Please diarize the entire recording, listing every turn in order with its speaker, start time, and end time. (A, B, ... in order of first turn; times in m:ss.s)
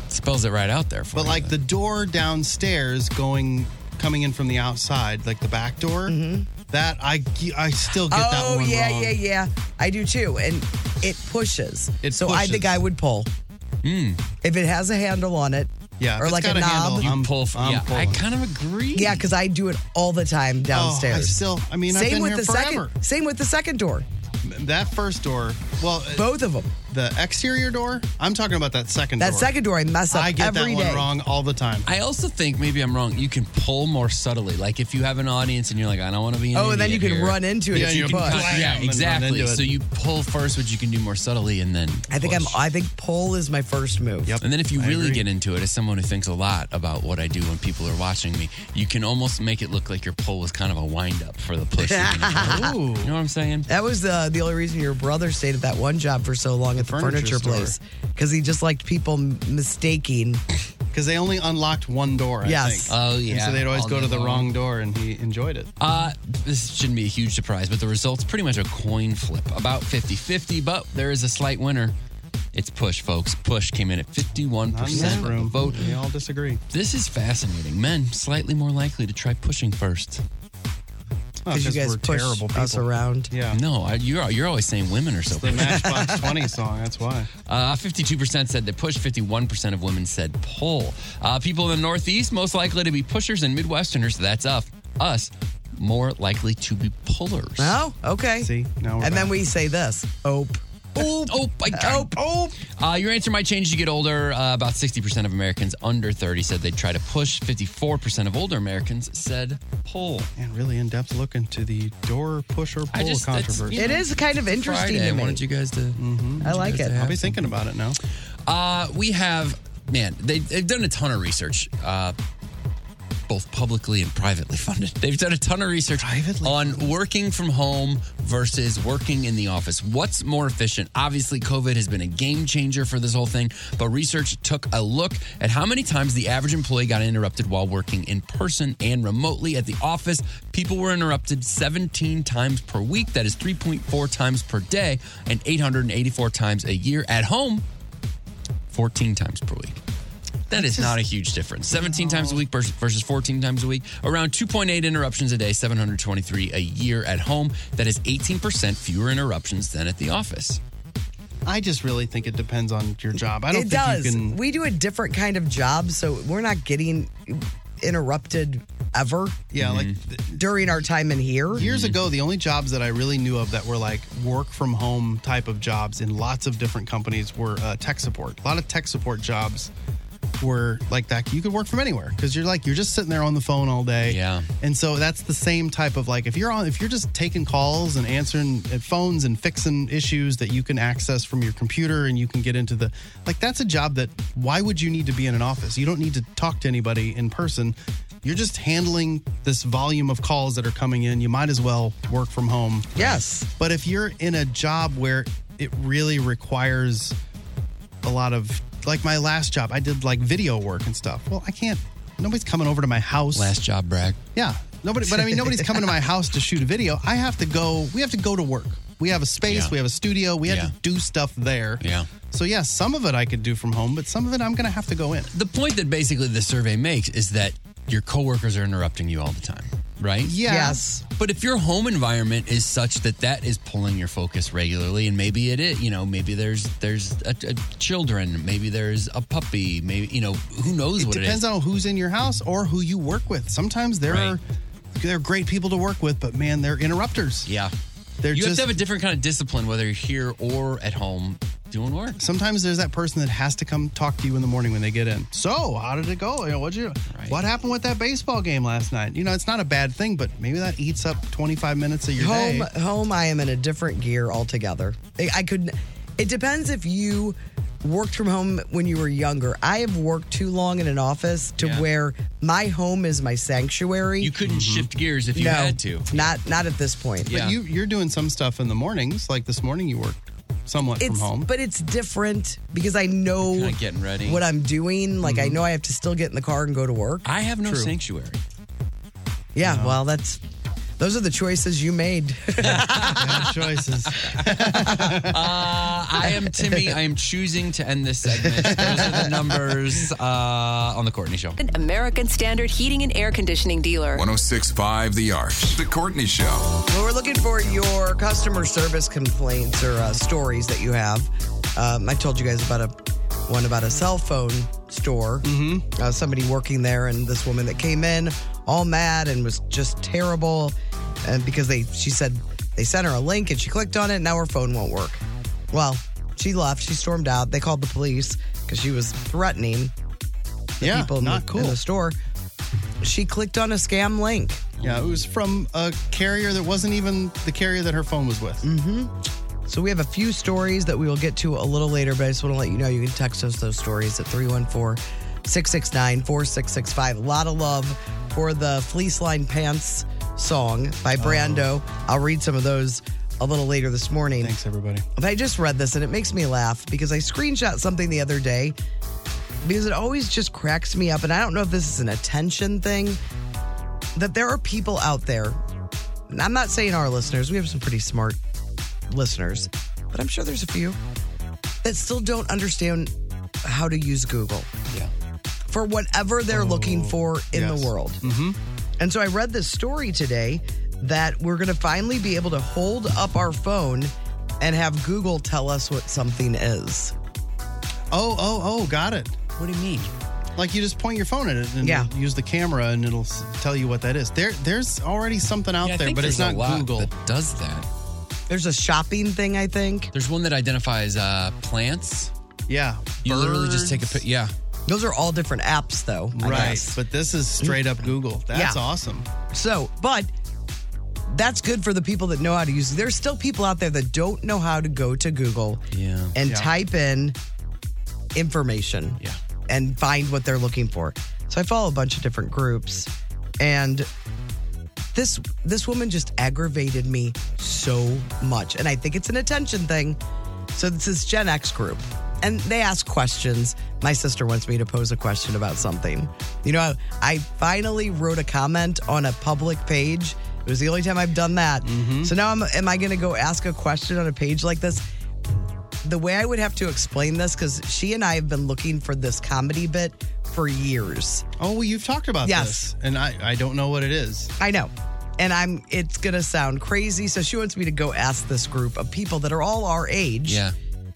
0:00.1-0:01.6 A
0:01.1-0:06.2 B
0:06.1-0:06.5 C
0:06.7-0:09.1 B
0:08.0-0:13.3 C
0:12.0-0:12.8 B
0:13.8-0:14.2 A
0:14.4-0:17.1 C
0:16.0-0:18.2 B
0:17.0-0:19.2 A
0:18.9-0:24.0 C
0:20.7-0:22.9 B
0:24.4-0:26.3 B
0:26.1-0:26.7 C
0:26.9-0:29.5 B
0:29.2-0:31.1 C
0:30.1-0:31.9 B
0:31.8-0:42.6 A
0:36.5-0:38.6 C
0:37.7-0:39.7 B
0:42.1-0:44.4 C
0:44.2-0:45.2 B
0:44.4-0:53.7 A
0:51.8-0:52.7 C
0:52.4-0:53.1 B
0:53.7-1:00.4 C
0:56.8-0:57.7 B
1:00.9-1:05.7 B
1:02.4-1:02.9 C
1:02.9-1:04.5 A
1:05.8-1:11.9 A
1:12.5-1:15.9 A
1:14.7-1:16.6 B
1:14.9-1:15.8 C
1:16.7-1:20.2 A
1:21.4-1:23.6 B
1:21.5-1:23.3 C
1:23.5-1:26.0 A
1:25.3-1:27.3 B
1:25.7-1:26.2 C
1:27.4-1:37.8 A
1:37.6-1:41.1 C
1:38.4-1:39.3 B
1:41.0-1:42.1 A
1:41.7-1:42.5 C
1:42.8-1:50.3 A
1:50.4-1:53.9 B
1:52.9-1:57.5 A
1:53.7-1:55.4 C
1:56.0-1:58.0 B
1:56.4-1:57.0 C
1:58.5-2:02.1 A
2:03.3-2:27.6 A
2:06.0-2:06.9 B
2:28.7-2:29.8 A
2:30.5-2:40.6 A
2:30.5-2:31.0 B
2:31.7-2:32.4 B
2:41.4-2:44.4 B
2:43.5-2:49.4 C
2:49.5-2:50.4 B
2:49.6-2:50.0 A
2:50.3-2:51.7 C
2:51.6-2:59.7 B
2:51.6-2:52.0 A
3:00.4-3:27.1 B
3:04.0-3:04.5 A
3:23.0-3:23.5 C
3:28.0-3:33.5 B
3:33.3-3:34.2 A
3:34.3-3:45.3 B
3:39.4-3:39.8 A
3:40.4-3:40.7 A
3:41.8-3:42.1 A
3:45.3-3:50.4 A
3:50.2-3:50.8 B
3:50.4-3:51.0 C
3:51.2-4:01.4 A
4:01.0-4:04.4 B
4:04.0-4:04.4 A
4:05.0-4:07.5 B
4:07.4-4:07.7 A
4:08.2-4:08.7 B
4:08.3-4:12.2 A
4:12.2-4:22.7 B
4:17.1-4:17.4 A
4:22.2-4:34.3 C
4:31.6-4:31.8 A
4:34.2-4:36.3 A
4:34.4-4:34.9 B
4:35.3-4:37.4 C
4:37.3-4:37.6 A
4:37.3-4:41.5 B
4:41.0-4:47.9 C
4:43.4-4:44.4 A
4:45.2-4:45.6 B
4:47.2-4:48.4 A
4:49.5-4:50.4 C
4:49.6-4:50.0 B
4:51.0-4:53.4 C
4:52.6-4:53.4 A
4:53.1-4:55.4 B
4:55.3-5:01.6 A
4:58.5-4:58.9 C
4:58.7-4:59.3 B
5:01.6-5:04.2 D
5:04.1-5:06.9 E
5:06.9-5:12.9 C
5:13.5-5:29.9 C
5:15.4-5:15.8 B
5:30.8-5:32.2 C
5:30.8-5:31.8 B
5:33.0-5:34.7 C
5:34.8-5:35.2 A
5:34.8-5:38.6 B
5:38.6-5:39.1 C
5:39.7-5:54.5 C
5:51.2-5:51.7 B
5:54.4-5:55.0 B
5:55.2-5:58.8 C
5:59.6-6:03.2 C
6:04.1-6:05.6 C
6:06.3-6:08.4 C
6:09.1-6:11.0 C
6:11.8-6:13.1 C
6:13.6-6:14.7 C
6:15.7-6:18.2 C
6:16.5-6:18.6 B
6:19.0-6:27.1 C
6:28.1-6:29.4 B
6:29.6-6:30.1 A
6:30.6-6:37.1 B
6:31.8-6:32.1 C
6:35.8-6:37.9 A
6:38.5-6:40.1 C
6:40.1-6:42.3 A
6:42.7-6:44.2 B
6:43.2-6:44.5 A
6:44.9-6:47.0 C
6:46.3-6:49.3 B
6:48.5-6:48.8 C
6:49.5-6:50.3 C
6:51.3-6:55.8 C
6:55.9-6:56.3 A
6:56.3-6:57.4 C
6:56.4-6:56.7 B
6:58.3-7:04.1 C
7:05.1-7:10.2 C
7:10.7-7:25.0 C
7:21.8-7:22.3 B
7:26.0-7:31.4 C
7:31.6-7:34.5 B
7:32.4-7:32.9 C
7:34.6-7:40.6 C
7:40.5-7:40.7 A